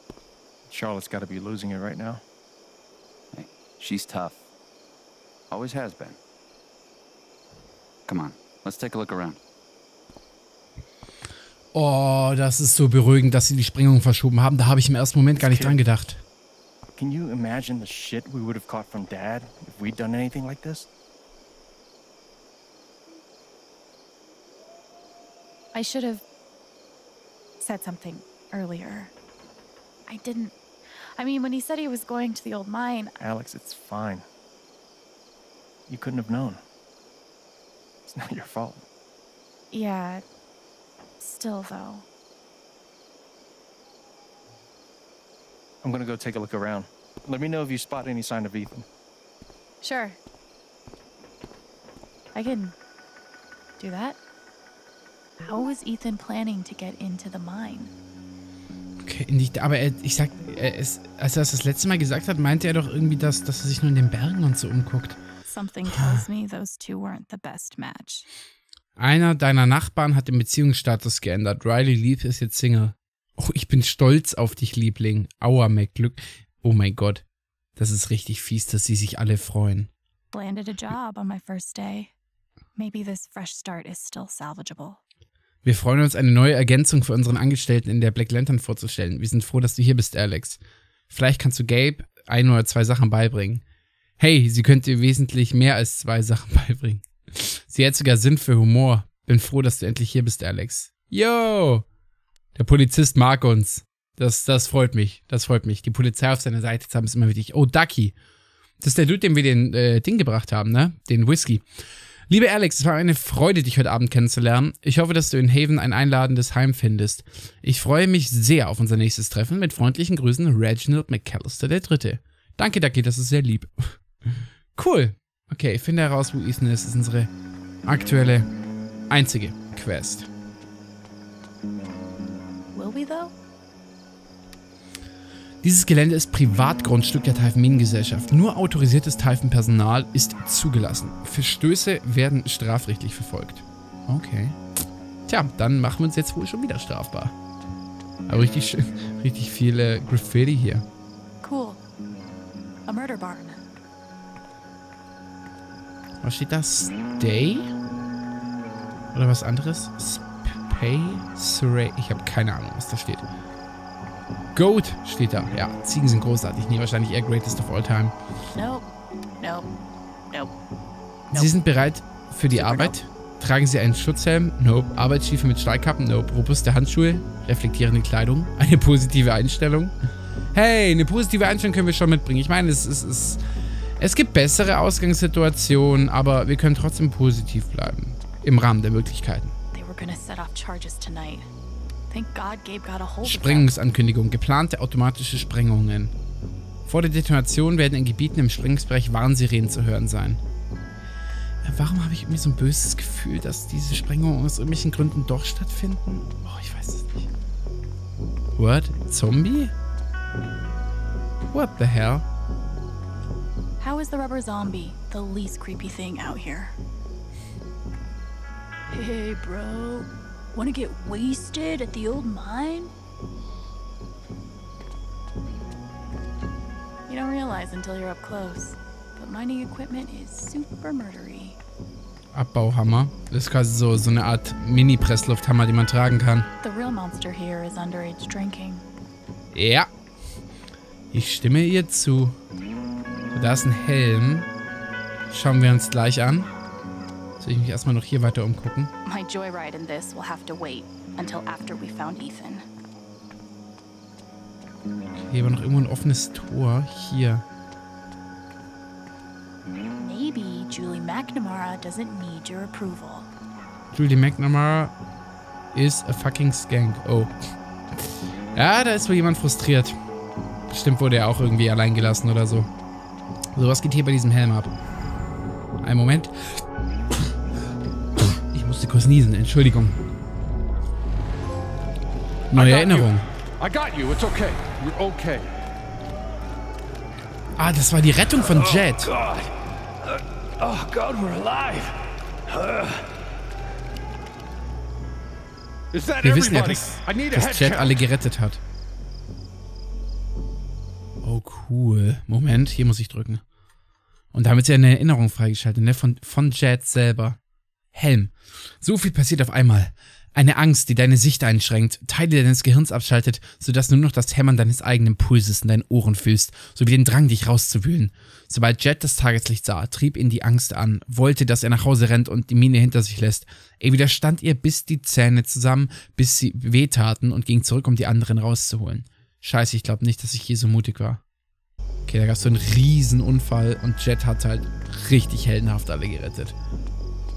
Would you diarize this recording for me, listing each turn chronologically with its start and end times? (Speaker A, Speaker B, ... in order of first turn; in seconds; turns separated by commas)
Speaker A: 0.7-2.2, Speaker B: 3.3-4.4, Speaker B: 5.5-6.2, Speaker B: 8.1-9.4, Speaker C: 11.7-16.2, Speaker A: 15.4-15.8, Speaker A: 17.0-20.9, Speaker D: 25.7-26.2, Speaker D: 27.6-29.1, Speaker D: 30.1-30.6, Speaker D: 31.2-33.2, Speaker A: 33.2-34.3, Speaker A: 35.9-36.6, Speaker A: 38.1-38.9, Speaker D: 39.7-40.2, Speaker D: 41.2-42.0, Speaker A: 45.8-48.9, Speaker D: 49.8-50.2, Speaker D: 52.3-52.8, Speaker D: 53.8-54.2, Speaker D: 55.4-57.9, Speaker C: 59.0-65.2, Speaker D: 65.5-68.3, Speaker C: 65.9-66.3, Speaker C: 69.0-77.2, Speaker C: 77.8-79.9, Speaker D: 80.3-82.1, Speaker D: 82.8-85.0, Speaker C: 85.6-90.6, Speaker C: 91.1-93.6, Speaker C: 94.2-101.8, Speaker C: 102.5-108.2, Speaker C: 108.8-111.6, Speaker C: 112.3-124.0, Speaker C: 124.8-127.3, Speaker C: 127.8-128.5, Speaker C: 129.1-130.3, Speaker D: 132.7-133.3, Speaker C: 135.6-144.6, Speaker C: 145.3-147.3, Speaker C: 148.3-150.9, Speaker D: 151.4-151.8, Speaker D: 152.9-153.7, Speaker C: 156.2-157.7, Speaker C: 159.1-163.2, Speaker C: 164.5-168.1, Speaker D: 168.5-168.9, Speaker D: 169.4-169.7, Speaker C: 171.3-179.9, Speaker D: 172.5-172.9, Speaker C: 180.5-183.4, Speaker C: 184.0-189.5, Speaker D: 189.7-191.5, Speaker D: 192.1-193.7, Speaker C: 193.2-196.1, Speaker C: 196.9-200.4, Speaker C: 201.6-207.3, Speaker C: 208.6-209.7, Speaker C: 211.5-212.3, Speaker D: 213.8-216.7, Speaker D: 218.9-222.9, Speaker D: 227.1-231.6, Speaker C: 232.3-236.5, Speaker D: 236.6-238.9, Speaker C: 239.5-239.9, Speaker C: 241.1-242.4, Speaker C: 243.3-244.5, Speaker C: 245.3-246.5, Speaker C: 247.4-248.9, Speaker D: 249.1-252.6, Speaker C: 255.2-257.4, Speaker D: 260.0-263.3, Speaker C: 263.9-264.9, Speaker C: 265.7-267.3, Speaker C: 268.6-270.0, Speaker C: 270.7-272.7, Speaker C: 273.6-274.7, Speaker C: 275.8-276.3, Speaker C: 278.2-280.0, Speaker C: 282.5-283.3, Speaker E: 282.5-285.5, Speaker C: 287.6-289.1, Speaker E: 288.5-289.5, Speaker E: 290.1-293.1, Speaker E: 295.9-298.0, Speaker C: 296.2-298.6, Speaker C: 301.2-303.4, Speaker C: 304.3-307.4, Speaker C: 307.9-331.2, Speaker C: 332.1-336.6